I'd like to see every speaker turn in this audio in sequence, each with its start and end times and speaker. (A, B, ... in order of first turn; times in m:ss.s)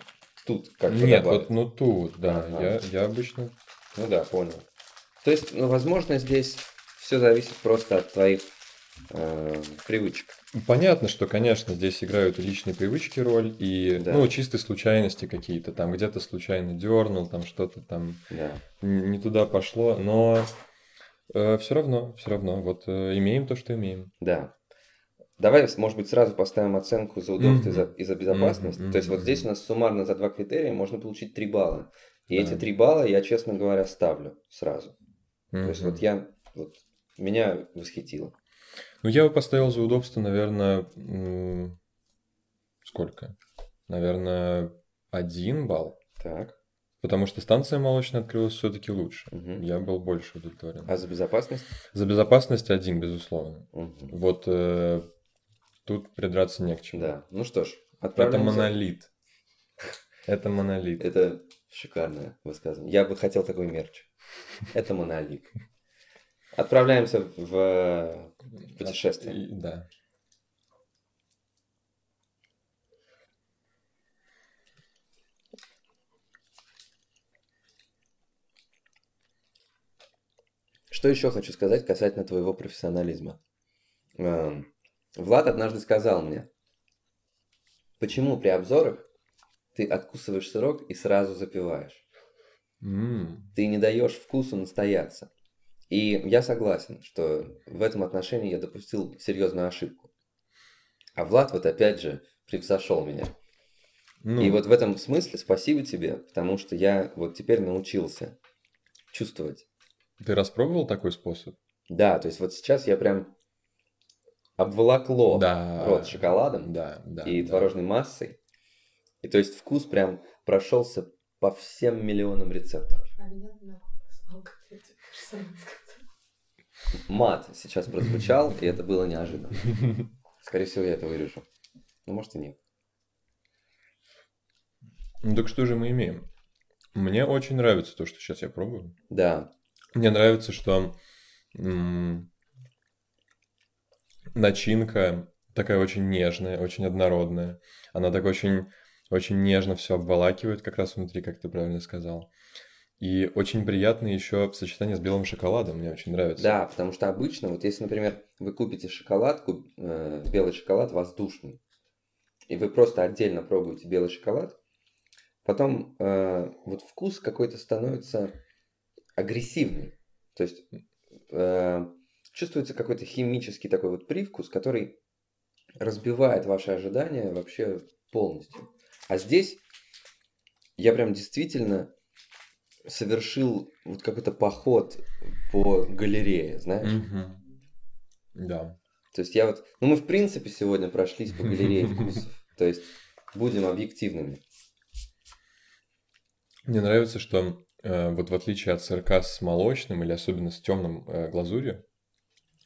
0:00.4-0:01.5 A
0:00.9-0:03.6 B
0:02.2-0:02.8 A
0:04.0-0:04.7 A
0:05.2-0:08.5 A
0:09.1-0:10.4 A
0:10.5-0:18.3 B
0:14.0-0:14.4 A
0:18.3-0:18.6 A
0:18.8-0:20.6 B
0:21.3-0:24.1 B
0:24.2-0:24.5 A
0:25.4-0:34.9 A
0:27.4-0:29.5 B
0:32.3-0:32.6 B
0:35.5-0:36.0 B
0:35.6-0:38.4 A
0:39.0-0:41.8 B
0:42.8-0:43.4 B
0:43.9-0:46.0 B
0:46.2-0:46.6 A
0:47.0-0:51.0 B
0:49.3-0:49.6 A
0:50.9-0:51.7 A
0:51.8-0:55.1 B
0:53.7-0:54.2 A
0:55.9-0:57.1 B
0:56.9-0:58.8 A
0:58.2-0:59.1 B
1:00.3-1:01.1 B
1:01.0-1:04.1 A
1:04.7-1:05.5 A
1:06.6-1:09.4 A
1:08.7-1:09.9 B
1:20.9-1:23.4 A
1:24.2-1:26.5 A
1:28.0-1:29.1 A
1:29.8-1:32.0 A
1:32.8-1:33.5 B
1:33.6-1:35.3 A
1:35.9-1:40.1 A
1:41.2-1:43.3 A
1:44.2-1:44.6 B
1:44.4-1:48.4 A
1:49.1-1:49.6 A
1:50.2-1:51.6 B
1:51.9-1:53.3 A
1:54.6-1:58.4 A
1:55.3-1:57.7 B
1:59.2-2:03.1 A
2:03.2-2:06.0 C
2:06.9-2:09.8 A
2:10.4-2:11.5 A
2:12.1-2:12.6 A
2:15.2-2:16.3 B
2:16.9-2:19.0 B
2:19.1-2:19.5 A
2:19.9-2:21.0 B
2:21.5-2:22.3 B
2:24.3-2:32.3 B
2:33.0-2:36.5 B
2:36.4-2:41.6 A
2:42.5-2:44.6 A
2:45.4-2:48.4 A
2:49.2-2:50.6 A
2:51.3-2:55.0 A
2:55.8-2:59.6 A
3:00.8-3:01.9 A
3:02.9-3:07.0 A
3:06.8-3:07.4 B
3:08.4-3:08.8 B
3:09.1-3:14.4 A
3:11.4-3:12.2 B
3:16.7-3:21.8 B